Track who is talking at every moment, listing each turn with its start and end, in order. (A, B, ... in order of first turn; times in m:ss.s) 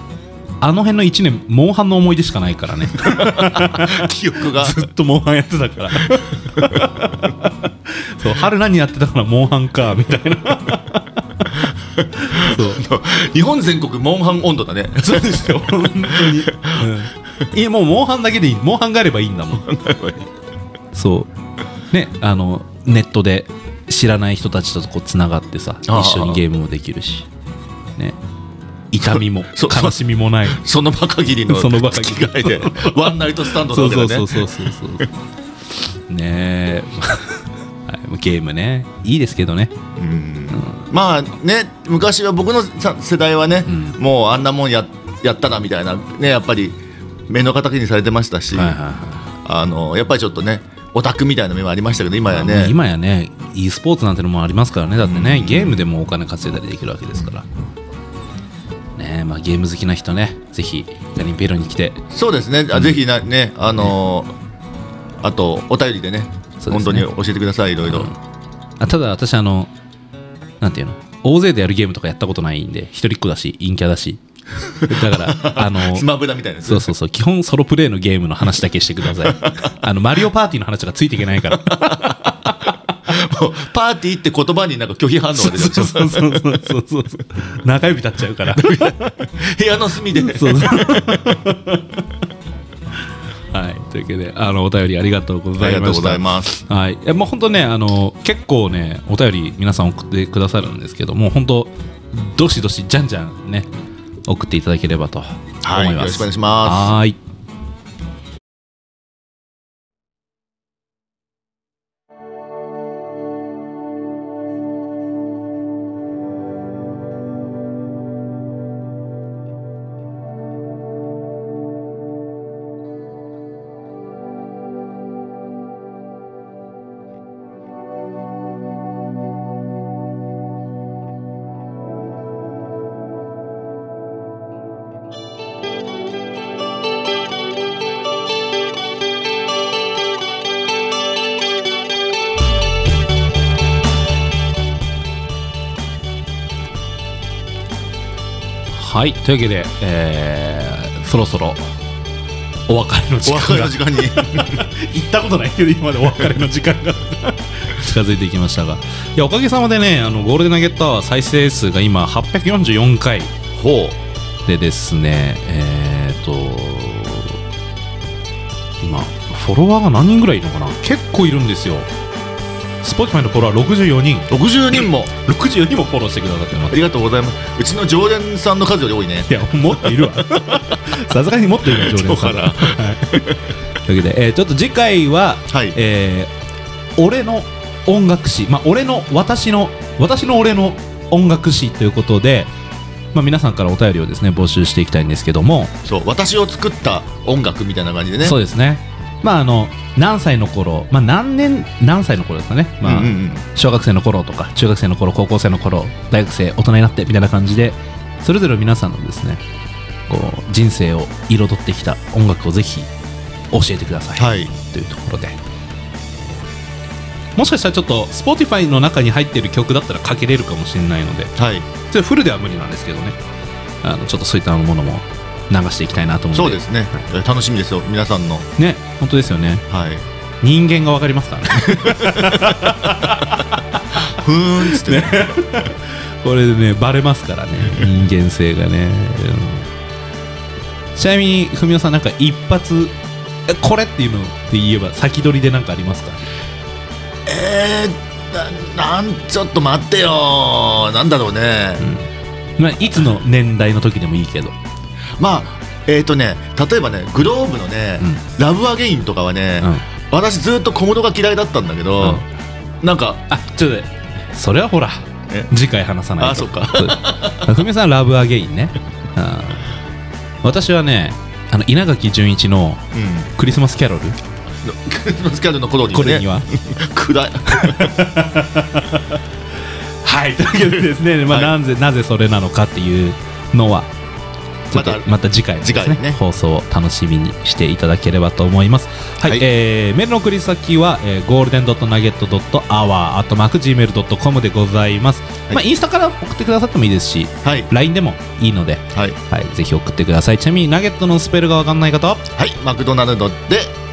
0:00.6-0:12.8 A
0:02.9-0:04.9 B
0:06.1-0:06.9 B
0:11.6-0:16.9 B
0:15.0-0:19.7 A
0:19.6-0:20.3 B
0:20.9-0:21.3 A
0:21.9-0:27.3 A
0:25.9-0:26.4 B
0:28.9-0:30.6 A
0:29.0-0:34.6 B
0:31.5-0:35.1 A
0:36.1-0:39.8 A
0:40.0-0:48.8 B
0:40.5-0:40.9 A
0:43.7-0:44.0 A
0:48.5-0:49.3 A
0:49.4-0:52.8 B
0:52.3-0:57.4 A
0:55.0-0:55.8 B
0:59.0-1:02.0 A
1:02.1-1:04.3 B
1:02.7-1:03.0 A
1:05.2-1:08.1 B
1:06.6-1:07.1 A
1:07.8-1:08.2 A
1:08.8-1:09.7 A
1:10.6-1:14.2 A
1:14.6-1:16.9 B
1:14.8-1:16.1 A
1:16.6-1:22.9 A
1:19.2-1:19.7 B
1:21.5-1:22.5 B
1:23.0-1:26.4 B
1:25.4-1:29.3 A
1:28.5-1:31.4 B
1:30.1-1:32.1 A
1:33.5-1:43.7 A
1:35.6-1:36.5 B
1:44.3-1:47.2 A
1:45.6-1:46.9 B
2:28.7-2:31.7 A
2:32.7-2:43.3 A
2:33.2-2:34.6 B
2:43.5-2:44.0 B
2:44.5-2:47.4 A
2:48.8-2:51.9 A
2:52.8-2:56.8 A
2:54.3-2:55.1 B
2:56.7-3:00.9 B
2:59.3-3:06.3 A
3:01.6-3:03.4 B
3:05.5-3:05.8 B
3:07.0-3:12.5 A
3:13.1-3:15.7 A
3:15.8-3:18.4 B
3:18.2-3:29.4 A
3:22.8-3:23.4 B
3:30.1-3:32.9 A
3:33.5-3:35.4 A
3:34.2-3:34.5 B
3:37.4-3:41.3 A
3:41.4-3:41.7 B
3:41.9-3:43.2 A
3:43.8-3:46.6 A
3:46.3-3:48.5 B
3:48.6-3:49.7 A
3:49.7-3:50.0 B
3:50.4-3:54.1 A
3:51.5-3:53.1 B
3:53.9-3:55.4 B
3:54.6-3:59.7 A
4:00.9-4:02.9 A
4:03.5-4:06.2 A
4:07.3-4:11.8 B
4:11.8-4:12.1 A
4:12.6-4:14.6 A
4:15.2-4:22.2 B
4:22.8-4:23.2 B
4:23.3-4:29.7 A
4:26.2-4:27.6 B
4:30.4-4:32.8 A
4:32.9-4:33.3 B
4:33.4-4:34.2 A
4:34.6-4:38.0 B
4:35.9-4:36.5 A
4:37.4-4:39.2 A
4:40.0-4:43.9 A
4:44.7-5:02.2 A
4:44.7-4:46.2 B
5:02.3-5:03.8 B